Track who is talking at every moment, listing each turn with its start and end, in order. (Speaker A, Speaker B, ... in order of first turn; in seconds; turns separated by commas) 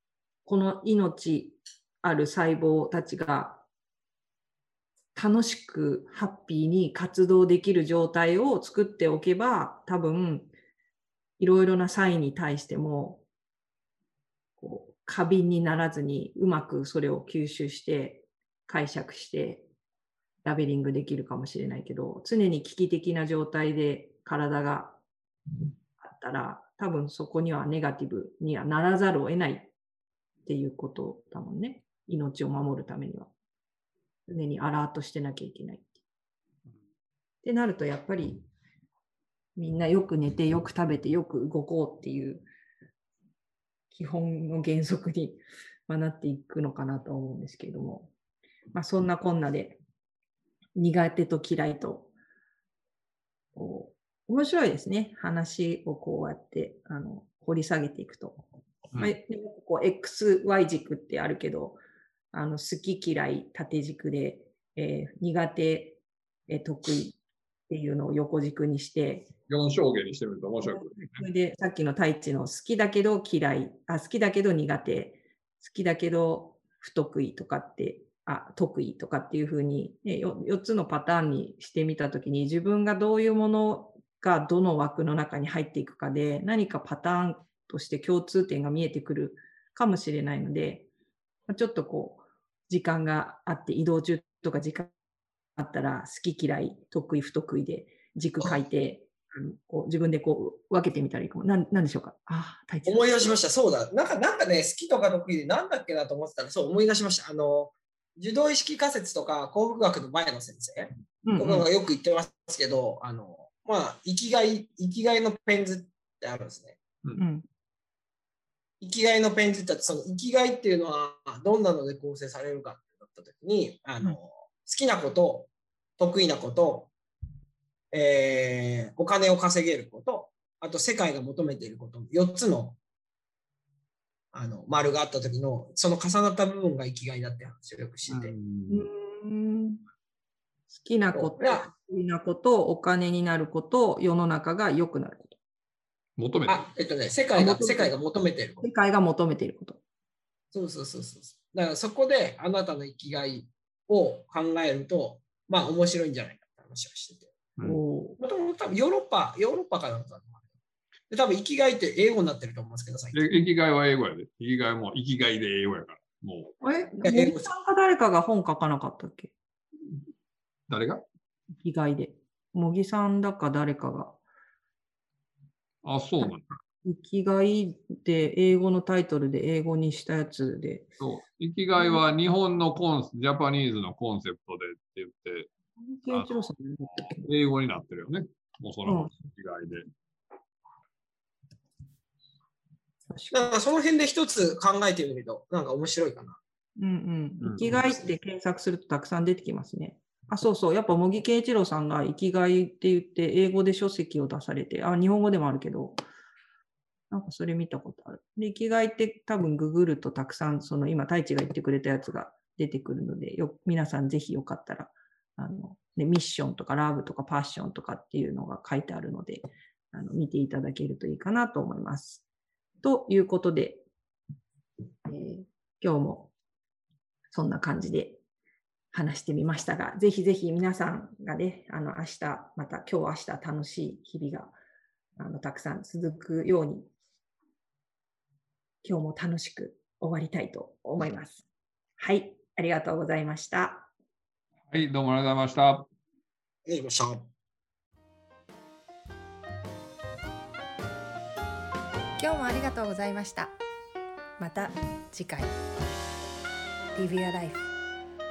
Speaker A: 0.5-3.6, Speaker A: 5.2-10.5, Speaker A: 11.4-13.2, Speaker A: 14.6-19.7, Speaker A: 20.4-25.0, Speaker A: 26.0-29.7, Speaker A: 30.4-33.3, Speaker A: 34.3-36.0, Speaker A: 37.4-38.5, Speaker A: 39.6-42.5, Speaker A: 43.9-48.1, Speaker A: 48.7-49.8, Speaker A: 50.8-52.1, Speaker A: 53.5-58.4, Speaker A: 59.0-61.8, Speaker A: 62.3-69.3, Speaker B: 69.5-71.2, Speaker A: 70.6-90.9, Speaker A: 91.5-94.9, Speaker A: 95.6-103.3, Speaker C: 102.9-116.8, Speaker A: 111.2-111.7, Speaker A: 117.2-117.5, Speaker C: 118.8-126.9, Speaker C: 127.9-132.8, Speaker C: 134.3-138.3, Speaker B: 138.1-138.9, Speaker A: 138.7-139.8, Speaker A: 140.7-145.4, Speaker C: 141.1-141.7, Speaker B: 146.2-146.6, Speaker C: 146.5-148.7, Speaker A: 147.3-147.9, Speaker A: 148.6-149.8, Speaker C: 150.5-157.3, Speaker A: 157.7-158.2, Speaker C: 158.2-160.4, Speaker C: 161.1-163.2, Speaker B: 163.1-166.5, Speaker A: 166.6-169.3, Speaker C: 167.0-167.5, Speaker B: 170.7-171.0, Speaker A: 171.6-174.2, Speaker B: 175.8-176.6, Speaker A: 176.8-180.9, Speaker B: 181.0-185.5, Speaker A: 181.8-182.0, Speaker A: 185.8-187.2, Speaker B: 187.2-189.9, Speaker A: 188.9-189.2, Speaker A: 193.1-193.5, Speaker C: 193.3-196.4, Speaker A: 196.8-206.0, Speaker B: 197.4-197.8, Speaker A: 207.1-222.2, Speaker A: 222.8-223.8, Speaker A: 225.1-226.3, Speaker A: 227.3-228.2, Speaker A: 228.9-234.5, Speaker A: 235.2-236.9, Speaker A: 238.8-241.5, Speaker A: 242.0-243.9, Speaker B: 244.7-245.9, Speaker C: 246.7-247.3, Speaker D: 252.2-253.5, Speaker D: 254.4-255.6, Speaker D: 256.9-257.7